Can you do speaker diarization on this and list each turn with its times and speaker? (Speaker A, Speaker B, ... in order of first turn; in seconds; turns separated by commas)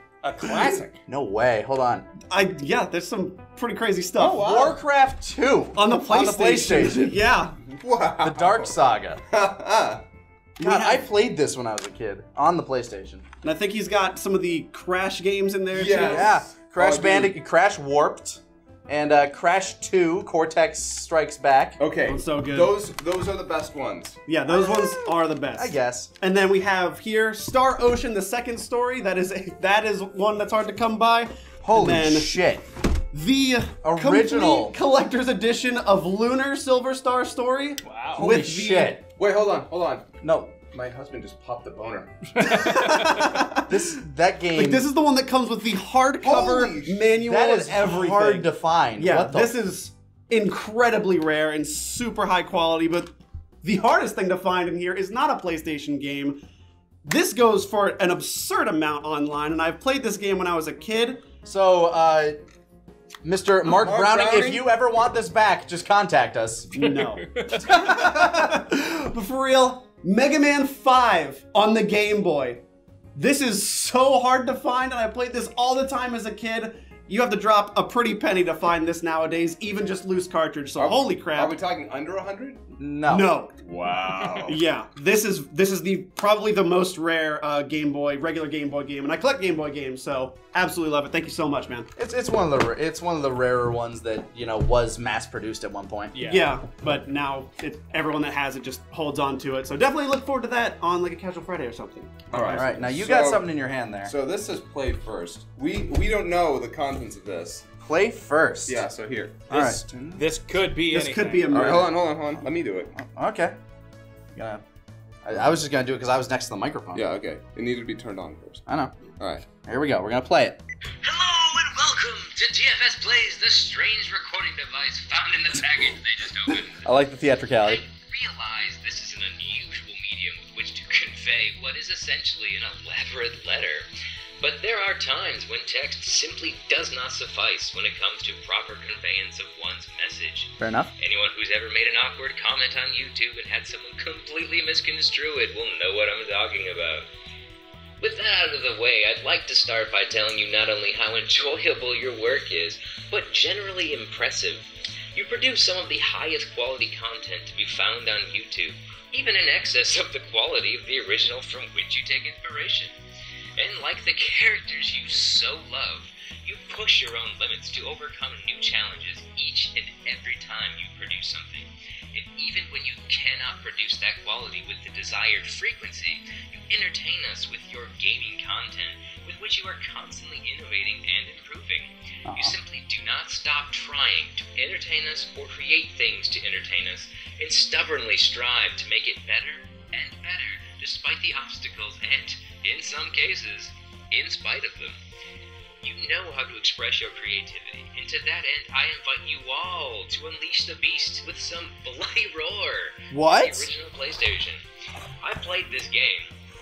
Speaker A: 0.2-1.0, Speaker B: 1.1-2.1, Speaker C: 2.3-4.5, Speaker D: 4.2-4.8, Speaker B: 4.3-7.2, Speaker C: 5.7-7.6, Speaker D: 7.7-8.8, Speaker B: 8.2-9.2, Speaker D: 9.3-10.0, Speaker C: 10.6-11.0, Speaker B: 10.6-13.2, Speaker C: 13.4-16.4, Speaker D: 15.7-17.4, Speaker B: 15.9-21.8, Speaker D: 21.8-24.2, Speaker C: 22.0-22.7, Speaker C: 24.2-32.3, Speaker B: 24.5-26.1, Speaker B: 31.6-32.6, Speaker C: 33.1-39.0, Speaker B: 33.8-34.7, Speaker A: 37.8-38.2, Speaker B: 38.2-39.0, Speaker D: 38.2-38.5, Speaker D: 39.0-42.7, Speaker B: 40.2-40.5, Speaker C: 42.4-43.8, Speaker A: 42.4-43.3, Speaker B: 43.6-44.9, Speaker C: 44.5-48.5, Speaker D: 46.2-47.1, Speaker B: 47.2-49.5, Speaker C: 49.0-56.4, Speaker C: 57.0-61.2, Speaker B: 61.4-62.4, Speaker B: 63.2-66.9, Speaker D: 63.6-64.7, Speaker C: 66.8-72.6, Speaker A: 67.0-67.7, Speaker B: 67.7-68.5, Speaker C: 73.1-81.6, Speaker D: 80.8-82.7, Speaker B: 82.8-83.3, Speaker C: 83.0-83.5, Speaker D: 83.6-84.6, Speaker C: 84.5-91.9, Speaker B: 92.0-96.1, Speaker A: 96.1-96.6, Speaker C: 96.2-102.7, Speaker D: 102.3-103.4, Speaker B: 102.5-104.1, Speaker D: 104.0-107.7, Speaker B: 107.8-108.8, Speaker D: 108.7-109.6, Speaker B: 109.5-110.2, Speaker A: 109.5-111.5, Speaker C: 110.9-112.0, Speaker D: 111.5-112.9, Speaker B: 112.9-113.5, Speaker B: 114.3-114.6, Speaker B: 115.2-117.0, Speaker D: 116.9-118.6, Speaker B: 118.7-118.9, Speaker D: 119.2-119.5, Speaker B: 119.5-120.6, Speaker E: 121.0-126.8, Speaker B: 126.7-127.8, Speaker E: 127.6-133.9, Speaker E: 134.4-147.1, Speaker B: 140.6-140.9, Speaker E: 148.0-162.9, Speaker E: 163.6-195.0, Speaker B: 182.2-182.6, Speaker E: 195.8-204.6, Speaker B: 203.1-203.7, Speaker E: 205.2-206.3